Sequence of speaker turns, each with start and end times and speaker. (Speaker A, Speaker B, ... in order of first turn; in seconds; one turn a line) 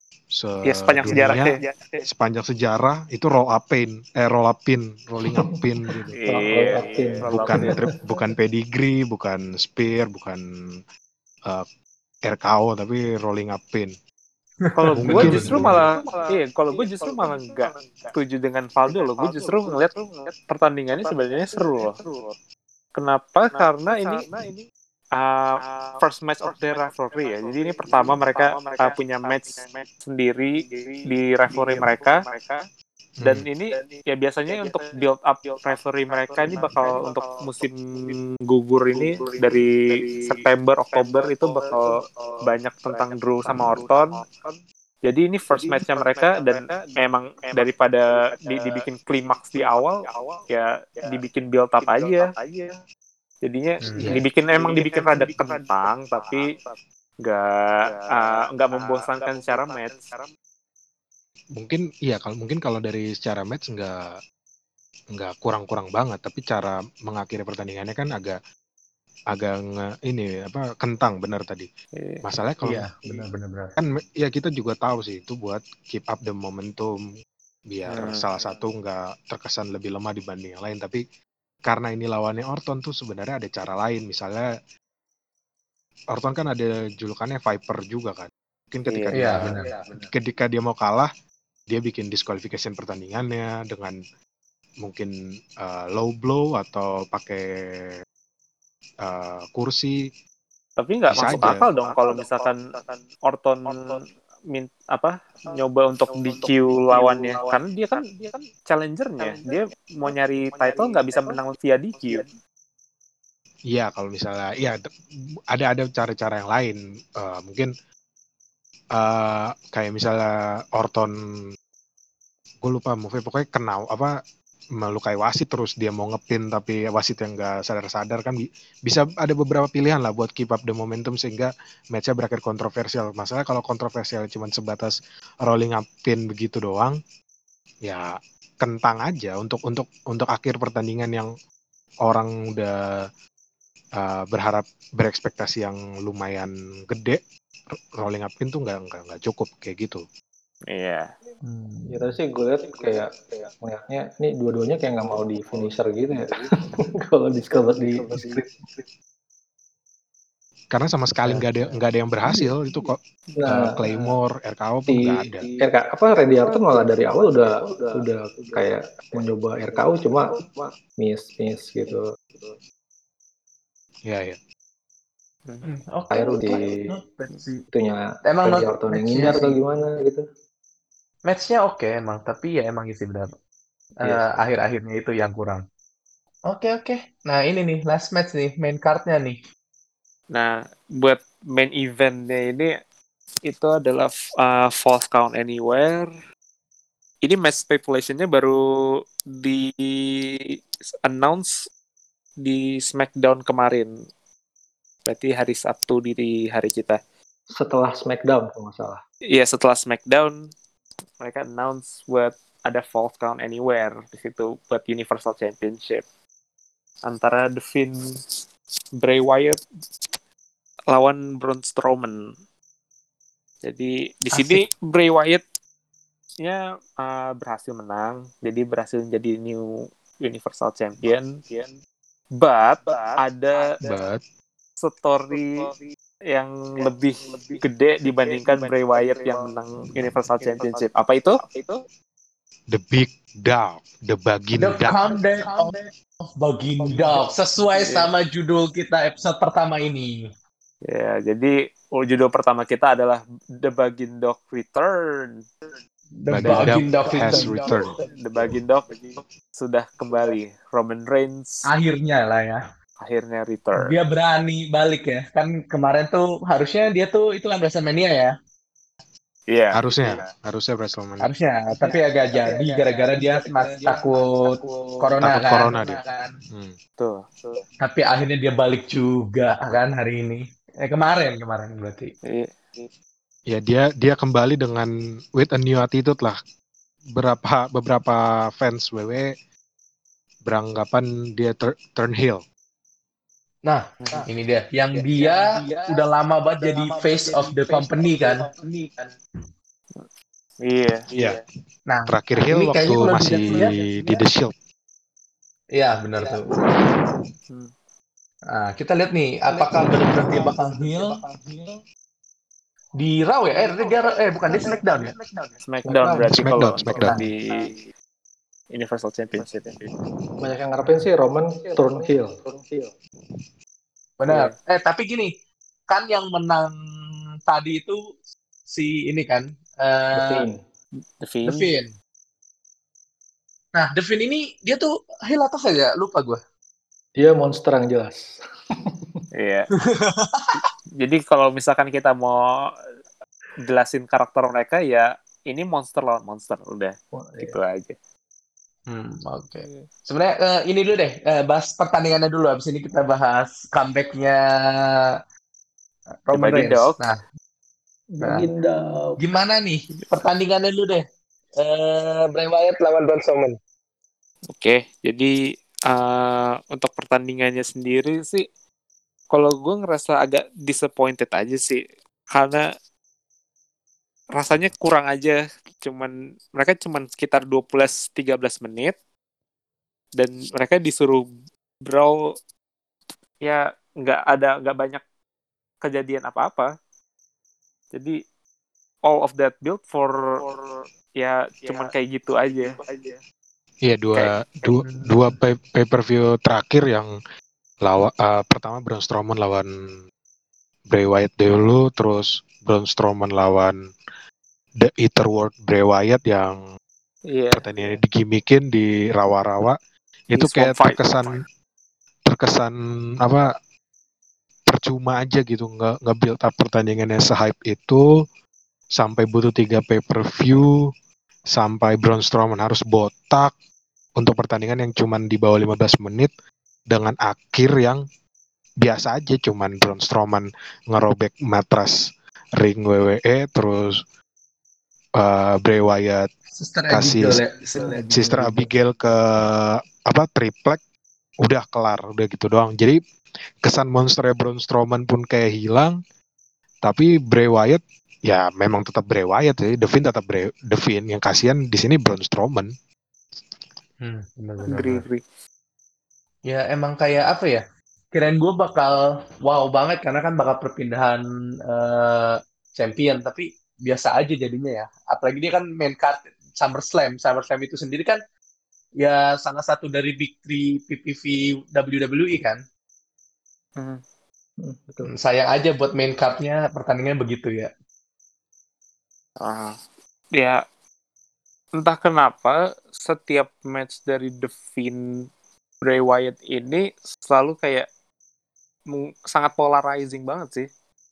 Speaker A: 0.3-6.1
Speaker B: 0.7-1.6
Speaker C: 5.3-7.8
Speaker B: 6.2-7.8
Speaker A: 7.3-10.4
Speaker A: 12.3-13.9
Speaker D: 14.6-15.7
Speaker B: 14.8-22.0
Speaker A: 15.0-15.9
Speaker B: 22.9-24.2
Speaker B: 25.1-32.2
Speaker A: 33.2-33.5
Speaker B: 33.2-39.7
Speaker B: 40.3-41.9
Speaker B: 42.4-44.2
Speaker B: 45.0-52.3
Speaker B: 53.4-56.5
Speaker D: 53.8-54.1
Speaker B: 57.2-60.0
Speaker A: 61.5-64.0
Speaker A: 65.1-68.4
Speaker A: 69.3-71.7
Speaker B: 72.0-72.2
Speaker A: 72.2-73.2
Speaker D: 72.6-73.7
Speaker A: 73.8-76.9
Speaker A: 77.7-81.0
Speaker B: 77.9-78.2
Speaker A: 81.7-84.5
Speaker A: 86.1-91.1
Speaker B: 88.9-89.5
Speaker D: 89.1-89.7
Speaker A: 91.7-94.0
Speaker A: 94.8-97.9
Speaker A: 99.0-100.0
Speaker B: 100.8-102.5
Speaker A: 101.1-101.7
Speaker B: 103.3-104.0
Speaker B: 104.5-108.0
Speaker B: 108.7-112.3
Speaker A: 113.7-114.8
Speaker A: 115.5-117.7
Speaker A: 118.9-121.1
Speaker A: 122.6-124.1
Speaker A: 124.8-137.0
Speaker A: 138.6-141.3
Speaker A: 142.0-142.7
Speaker A: 144.0-147.2
Speaker A: 148.0-150.0
Speaker B: 150.7-151.1
Speaker D: 151.4-152.1
Speaker C: 151.9-158.8
Speaker A: 160.7-165.4
Speaker C: 163.3-164.1
Speaker C: 164.9-172.0
Speaker A: 174.0-174.4
Speaker D: 175.6-177.6
Speaker C: 176.1-176.9
Speaker C: 177.7-180.2
Speaker D: 178.2-179.6
Speaker D: 181.3-183.3
Speaker D: 184.0-185.6
Speaker D: 186.5-189.4
Speaker B: 190.3-192.7
Speaker B: 193.4-196.1
Speaker B: 197.2-198.6
Speaker B: 199.3-200.4
Speaker B: 201.0-201.6
Speaker B: 202.4-203.9
Speaker B: 205.1-207.0
Speaker C: 207.5-209.0
Speaker B: 209.3-210.5
Speaker B: 211.2-216.0
Speaker B: 217.0-218.0
Speaker B: 219.0-219.6
Speaker B: 220.9-222.2
Speaker B: 223.6-225.4
Speaker D: 224.3-224.6
Speaker B: 226.4-229.7
Speaker B: 230.2-231.4
Speaker B: 232.4-233.7
Speaker A: 233.8-234.2
Speaker B: 234.8-235.7
Speaker B: 236.3-241.4
Speaker A: 242.7-245.0
Speaker D: 244.6-245.7
Speaker D: 246.2-250.2
Speaker B: 250.8-255.4
Speaker D: 256.2-257.8
Speaker A: 256.3-257.9
Speaker B: 257.3-261.6
Speaker D: 261.7-262.6
Speaker B: 263.0-264.0
Speaker D: 263.8-268.4
Speaker B: 269.5-270.2
Speaker A: 269.7-271.3
Speaker D: 271.2-276.3
Speaker A: 275.2-276.0
Speaker B: 277.0-277.6
Speaker D: 277.8-282.1
Speaker B: 282.2-282.9
Speaker A: 283.5-286.4
Speaker A: 287.1-289.3
Speaker A: 290.4-292.4
Speaker D: 293.6-298.5
Speaker B: 300.6-301.1
Speaker A: 301.1-301.4
Speaker D: 301.9-303.8
Speaker A: 302.1-304.5
Speaker D: 305.7-306.5
Speaker D: 308.5-311.2
Speaker D: 313.0-315.1
Speaker B: 315.6-317.8
Speaker C: 315.8-316.3
Speaker A: 316.3-317.2
Speaker D: 317.0-317.3
Speaker B: 318.7-319.8
Speaker C: 320.4-322.4
Speaker D: 324.2-325.3
Speaker D: 325.9-326.7
Speaker D: 327.5-328.0
Speaker D: 328.7-330.4
Speaker C: 330.1-330.6
Speaker B: 331.2-331.7
Speaker D: 331.4-331.9
Speaker D: 333.7-336.4
Speaker C: 337.1-339.2
Speaker B: 339.3-339.7
Speaker D: 339.8-340.6
Speaker B: 341.0-342.4
Speaker B: 343.6-347.9
Speaker C: 347.1-347.6
Speaker D: 348.9-355.1
Speaker D: 356.2-357.2
Speaker B: 356.3-357.0
Speaker C: 358.1-359.2
Speaker D: 358.2-358.5
Speaker D: 359.2-361.0
Speaker D: 361.6-363.6
Speaker B: 364.5-365.3
Speaker B: 365.9-368.4
Speaker B: 369.3-372.6
Speaker B: 374.3-378.9
Speaker B: 380.2-381.3
Speaker B: 381.8-382.2
Speaker B: 383.4-385.0
Speaker B: 385.8-386.7
Speaker B: 387.9-388.2
Speaker B: 389.1-390.2
Speaker B: 391.2-392.8
Speaker A: 393.8-397.1
Speaker A: 397.8-399.7
Speaker A: 400.9-403.8
Speaker A: 404.8-406.6
Speaker B: 407.3-407.6
Speaker A: 407.5-409.8
Speaker B: 410.3-411.0
Speaker A: 410.3-411.4
Speaker A: 412.3-413.5
Speaker A: 414.7-418.0
Speaker A: 418.9-420.7
Speaker A: 421.5-423.5
Speaker A: 424.2-426.3
Speaker A: 426.9-428.0
Speaker A: 428.8-432.0
Speaker A: 432.6-434.0
Speaker A: 435.2-436.3
Speaker D: 436.5-438.7
Speaker A: 436.9-437.4
Speaker A: 438.1-440.8
Speaker A: 441.4-443.0
Speaker A: 443.6-445.9
Speaker A: 446.8-452.7
Speaker D: 454.0-455.0
Speaker B: 454.7-455.2
Speaker D: 456.5-468.2
Speaker D: 469.0-472.6
Speaker B: 473.8-474.0
Speaker C: 474.6-475.1
Speaker D: 475.1-477.7
Speaker B: 479.4-479.7
Speaker B: 480.4-480.6
Speaker B: 481.8-485.0
Speaker B: 485.8-487.9
Speaker B: 488.9-490.6